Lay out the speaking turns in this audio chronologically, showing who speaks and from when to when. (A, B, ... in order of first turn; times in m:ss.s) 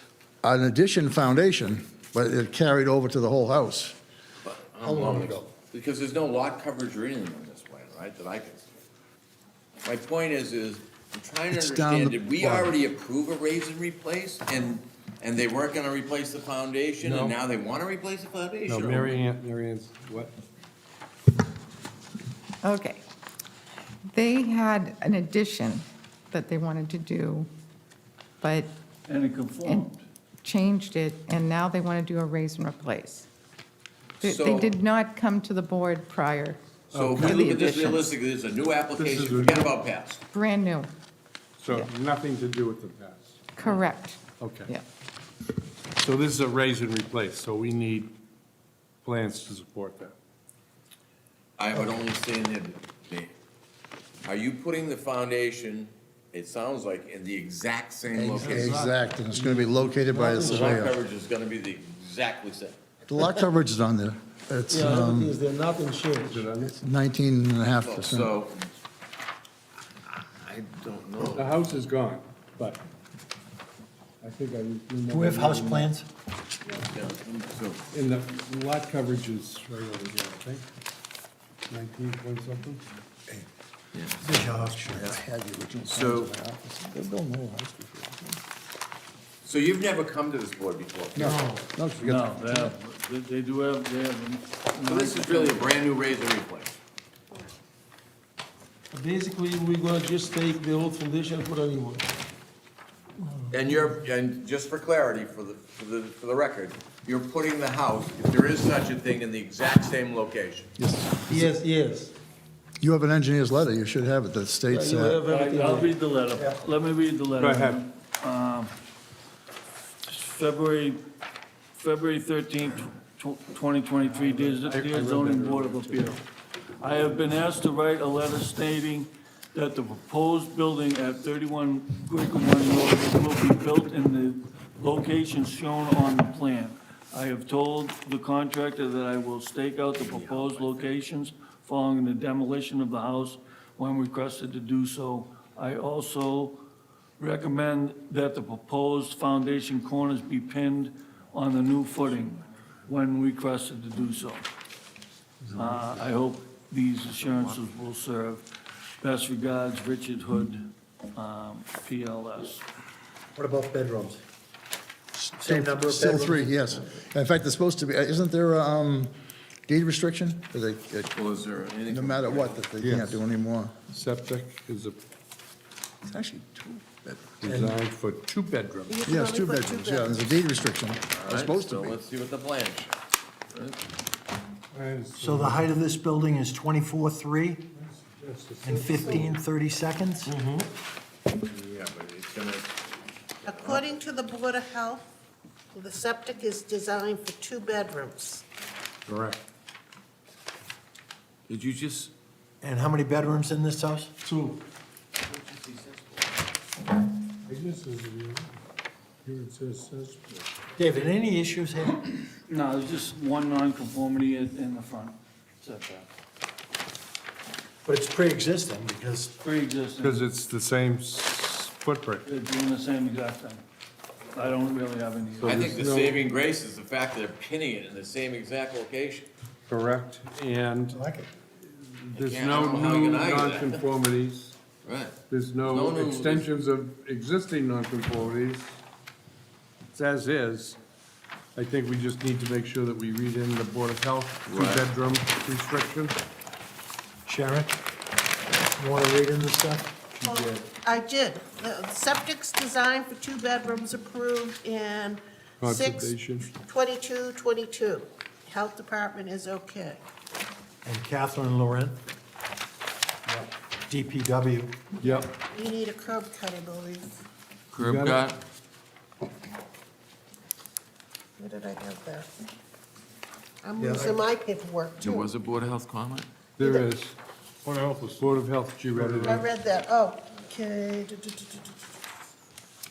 0:00.4-0:03.9 A
0:04.4-0:08.7 B
0:04.8-0:05.4 C
0:09.8-0:19.1 B
0:11.5-0:12.8 A
0:17.0-0:17.4 D
0:18.7-0:20.3 D
0:22.6-0:23.0 E
0:24.1-0:27.5 E
0:28.4-0:28.7 E
0:29.1-0:30.0 F
0:29.6-0:29.9 E
0:30.4-0:33.3 E
0:34.2-0:36.6 E
0:34.2-0:34.7 B
0:36.9-0:37.7 D
0:36.9-0:40.2 B
0:37.2-0:38.1 E
0:39.0-0:39.7 D
0:40.3-0:40.9 E
0:41.6-0:43.6 D
0:43.6-0:44.8 E
0:43.6-0:43.9 B
0:44.4-0:44.7 D
0:46.0-0:48.1 D
0:49.0-0:50.1 D
0:51.6-0:53.3 B
0:54.2-0:58.8 B
0:58.1-1:01.0 A
0:58.6-1:00.8 C
1:00.4-1:02.8 B
1:03.1-1:05.4 A
1:04.6-1:06.4 C
1:06.2-1:06.8 D
1:06.6-1:08.3 A
1:07.8-1:08.7 B
1:10.2-1:11.5 B
1:11.3-1:12.8 D
1:14.2-1:15.9 D
1:15.1-1:16.0 C
1:16.7-1:17.8 B
1:17.9-1:20.6 D
1:21.7-1:22.8 D
1:23.9-1:24.4 B
1:24.2-1:25.0 C
1:24.5-1:28.4 A
1:25.0-1:25.2 B
1:25.8-1:26.3 B
1:29.4-1:31.4 B
1:31.2-1:32.7 A
1:31.2-1:31.6 C
1:32.0-1:35.8 F
1:34.8-1:36.8 B
1:38.9-1:42.1 C
1:43.2-1:43.9 C
1:43.5-1:50.8 B
1:50.8-1:51.6 A
1:51.3-1:52.1 C
1:52.8-1:55.2 A
1:54.7-1:56.6 C
1:55.2-1:58.7 F
1:57.4-1:57.8 D
2:00.1-2:01.0 F
2:01.8-2:06.2 F
2:04.0-2:06.1 D
2:06.8-2:26.6 F
2:20.1-2:20.8 B
2:27.2-2:34.4 F
2:35.5-2:38.4 F
2:39.0-2:42.6 F
2:43.4-2:44.2 C
2:45.1-2:49.1 A
2:45.4-2:47.0 C
2:49.7-2:51.1 A
2:51.1-2:52.7 B
2:51.9-2:53.7 A
2:52.8-2:53.2 D
2:53.9-2:55.0 D
2:56.0-2:56.9 A
2:57.4-2:59.0 D
2:57.5-2:57.8 C
2:58.9-3:00.4 G
2:59.0-3:02.0 A
3:01.1-3:03.0 B
3:03.5-3:03.8 B
3:04.7-3:05.7 D
3:05.2-3:07.6 C
3:07.8-3:09.4 D
3:08.6-3:10.6 C
3:11.4-3:12.8 B
3:13.4-3:13.9 B
3:13.4-3:15.1 G
3:15.7-3:18.4 G
3:19.0-3:19.4 D
3:21.5-3:22.1 B
3:22.6-3:24.6 C
3:25.2-3:26.3 B
3:27.5-3:28.5 D
3:29.2-3:30.5 D
3:30.8-3:32.0 C
3:32.5-3:36.1 F
3:37.8-3:39.3 C
3:39.4-3:40.2 F
3:40.0-3:42.3 D
3:42.2-3:43.6 F
3:44.3-3:45.6 F
3:45.4-3:46.3 D
3:45.4-3:49.3 B
3:49.7-3:54.6 D
3:50.9-3:51.3 C
3:52.1-3:53.8 B
3:54.8-3:56.5 B
3:55.3-3:58.8 D
3:59.9-4:00.8 D
4:01.5-4:06.2 D
4:04.4-4:04.9 B
4:07.2-4:07.7 C
4:08.8-4:09.9 C
4:10.1-4:10.6 D
4:10.2-4:20.0 G
4:15.6-4:16.5 D
4:20.8-4:22.0 C
4:23.9-4:24.8 C
4:25.0-4:25.3 D
4:25.0-4:27.2 G
4:27.7-4:28.4 B
4:31.4-4:32.3 G
4:33.6-4:35.3 G
4:33.8-4:34.2 C
4:35.0-4:36.3 B
4:36.6-4:39.5 D
4:38.9-4:39.3 C
4:39.2-4:41.8 G